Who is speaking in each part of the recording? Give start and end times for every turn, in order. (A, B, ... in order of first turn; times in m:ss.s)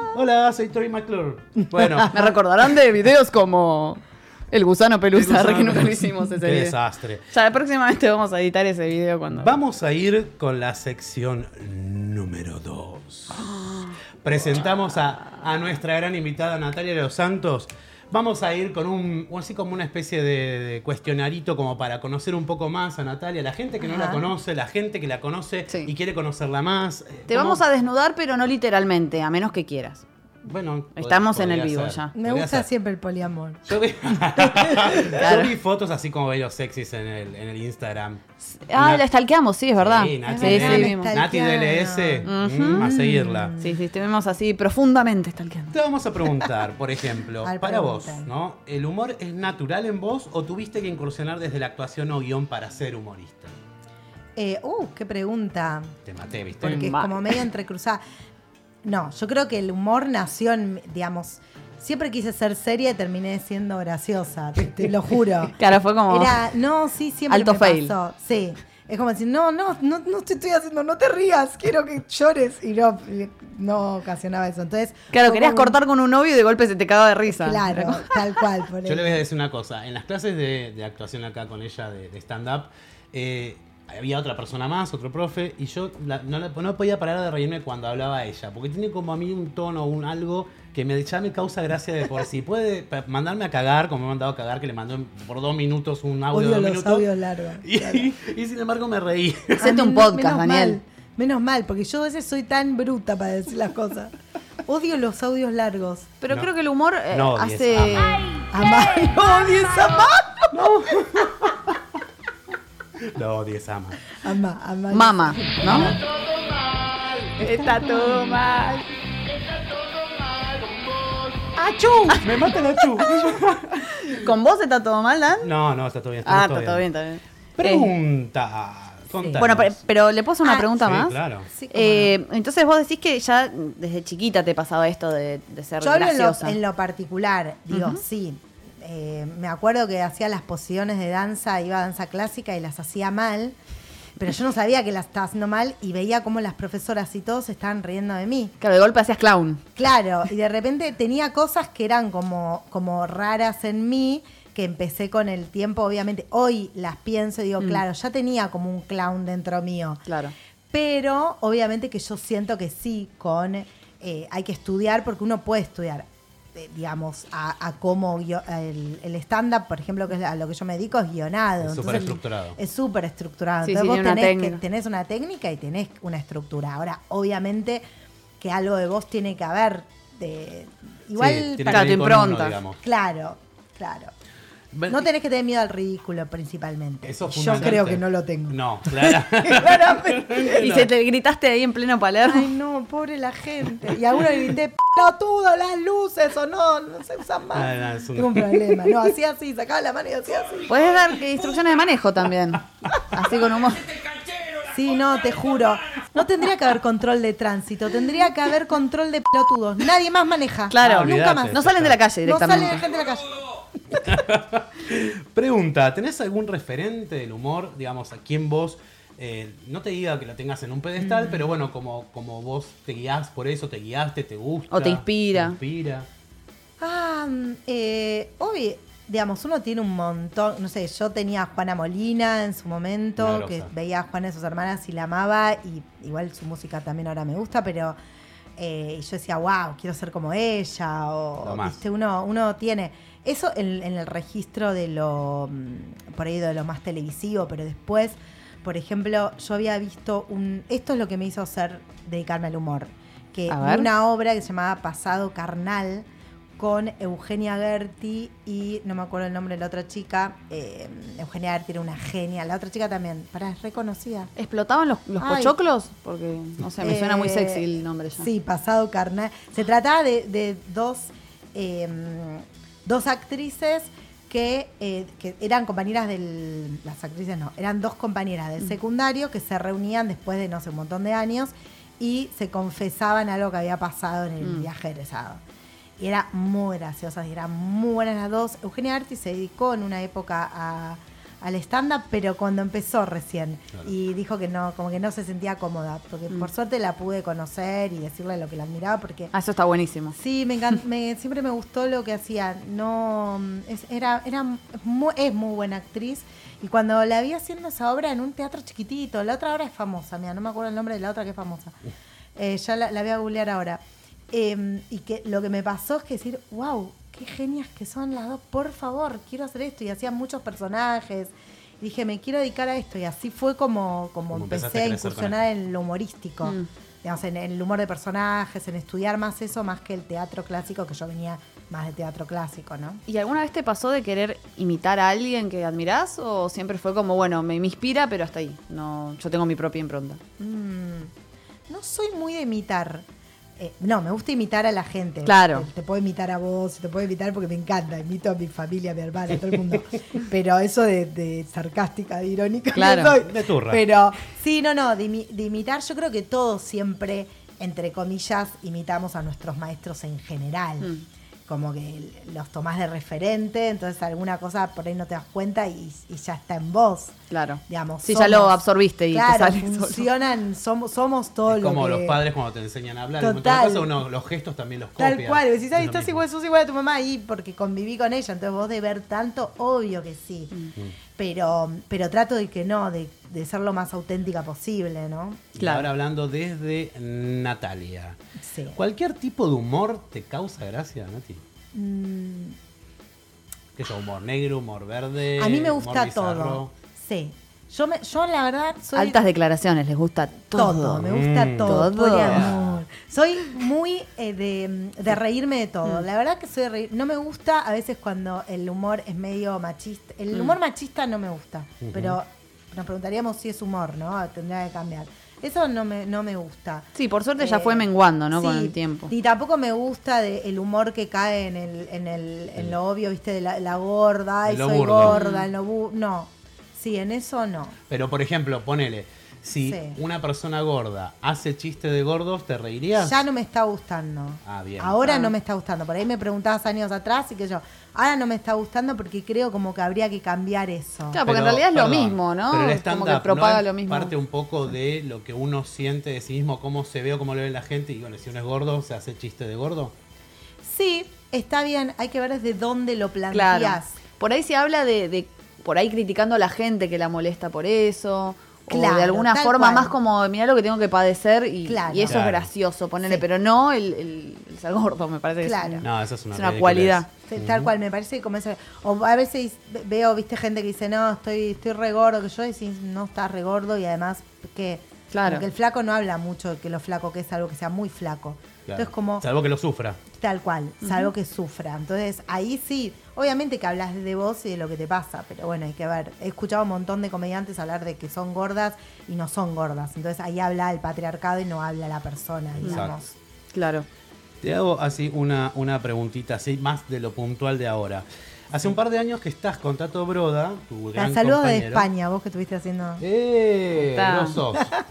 0:00.1-0:02.2 A
0:02.1-0:06.8 B
0:05.1-0:07.2 A
0:07.3-0:09.6 B
0:09.4-0:13.5 A
0:13.5-0:13.9 B
0:14.2-0:27.6 A
0:23.8-0:24.3 C
0:27.3-0:30.0 B
0:30.4-0:32.7 A
0:31.0-0:32.1 B
0:32.2-0:33.6 C
0:33.7-0:39.0 A
0:35.1-0:35.5 B
0:38.6-0:41.1 B
0:39.8-0:43.6 A
0:40.2-0:43.8 C
0:42.3-0:42.9 B
0:43.6-0:45.8 B
0:45.7-0:53.5 A
0:47.4-0:48.3 C
0:54.4-0:56.0 C
0:56.1-0:56.9 A
0:56.6-0:58.0 C
0:56.6-0:57.4 B
0:58.8-1:05.6 C
1:05.6-1:06.4 B
1:06.1-1:15.8 C
1:07.3-1:07.9 B
1:15.1-1:18.2 B
1:17.3-1:19.2 C
1:18.8-1:37.1 A
1:36.3-1:38.1 C
1:37.6-1:39.7 A
1:39.6-1:40.8 B
1:39.6-1:44.1 C
1:44.6-1:46.1 C
1:46.2-1:48.5 B
1:47.1-1:48.2 A
1:48.5-1:50.7 C
1:50.5-1:51.8 A
1:53.0-1:54.2 A
1:54.2-1:55.9 C
1:54.9-1:56.0 B
1:55.6-1:56.0 A
1:57.4-1:58.8 B
1:57.4-1:58.4 A
2:01.6-2:02.3 C
2:02.0-2:04.3 A
2:04.0-2:05.5 B
2:05.4-2:06.9 A
2:06.2-2:07.9 B
2:07.6-2:09.8 A
2:09.2-2:09.4 C
2:09.4-2:11.2 B
2:10.8-2:11.5 A
2:11.5-2:12.1 C
2:11.7-2:16.6 B
2:15.8-2:23.6 C
2:17.7-2:18.0 B
2:24.2-2:28.6 C
2:28.6-2:29.6 B
2:29.8-2:40.0 C
2:40.1-2:40.3 B
2:40.7-2:57.8 C
2:51.6-2:52.6 A
2:53.6-2:54.6 B
2:58.4-3:01.9 C
3:01.2-3:02.8 A
3:01.7-3:02.6 B
3:02.8-3:04.1 C
3:04.7-3:05.0 A
3:04.9-3:10.5 C
3:07.1-3:10.9 A
3:10.0-3:12.5 B
3:12.3-3:21.0 C
3:17.5-3:19.0 A
3:20.7-3:23.9 B
3:24.6-3:31.6 C
3:30.7-3:32.8 B
3:30.8-3:32.0 A
3:32.2-3:33.3 C
3:34.0-3:46.1 A
3:41.0-3:41.4 C
3:44.7-3:45.6 B
3:46.8-3:58.0 C
3:53.2-3:53.7 A
3:58.6-4:16.1 C
4:01.4-4:01.8 A
4:13.5-4:13.9 B
4:16.6-4:24.3 C
4:24.4-4:28.3 B
4:25.2-4:25.6 C
4:26.8-4:45.4 C
4:44.4-4:44.7 B
4:46.0-4:59.3 C
4:59.3-5:00.2 B
5:00.2-5:11.8 C
5:12.4-5:33.0 C
5:24.3-5:25.4 A
5:33.1-5:40.2 B
5:40.4-5:41.1 C
5:41.7-5:43.1 C
5:43.6-6:00.9 C
5:45.2-5:45.7 B
5:52.7-5:53.2 B
5:53.2-5:53.8 A
6:01.5-6:07.2 C
6:07.3-6:10.1 B
6:07.7-6:12.2 C
6:11.5-6:16.2 A
6:13.2-6:14.0 C
6:15.0-6:20.6 C
6:21.2-6:25.5 C
6:25.6-6:28.2 A
6:25.6-6:25.9 B
6:28.4-6:28.8 C
6:28.8-6:31.4 A
6:31.7-6:32.6 C
6:33.8-6:36.7 A
6:35.4-6:39.2 C
6:39.0-6:42.5 B
6:40.5-7:07.8 C
6:41.0-6:42.8 A
6:51.8-6:52.2 A
6:57.0-6:59.1 B
7:04.5-7:05.2 A
7:05.0-7:05.5 B
7:07.9-7:13.2 A
7:09.6-7:10.0 C
7:13.0-7:21.2 C
7:14.4-7:15.1 A
7:21.1-7:24.1 B
7:21.2-7:29.9 A
7:30.6-7:34.0 C
7:33.3-7:47.1 B
7:38.7-7:40.0 C
7:41.6-7:42.2 C
7:42.0-7:42.5 A
7:45.4-7:45.9 C
7:45.8-7:47.7 A
7:47.3-7:59.3 C
7:55.1-7:55.5 B
7:58.7-8:00.0 A
8:00.1-8:13.1 C
8:12.6-8:13.0 A
8:13.5-8:13.9 B
8:14.4-8:21.9 A
8:21.0-8:23.0 C
8:23.0-8:24.7 A
8:23.8-8:24.4 B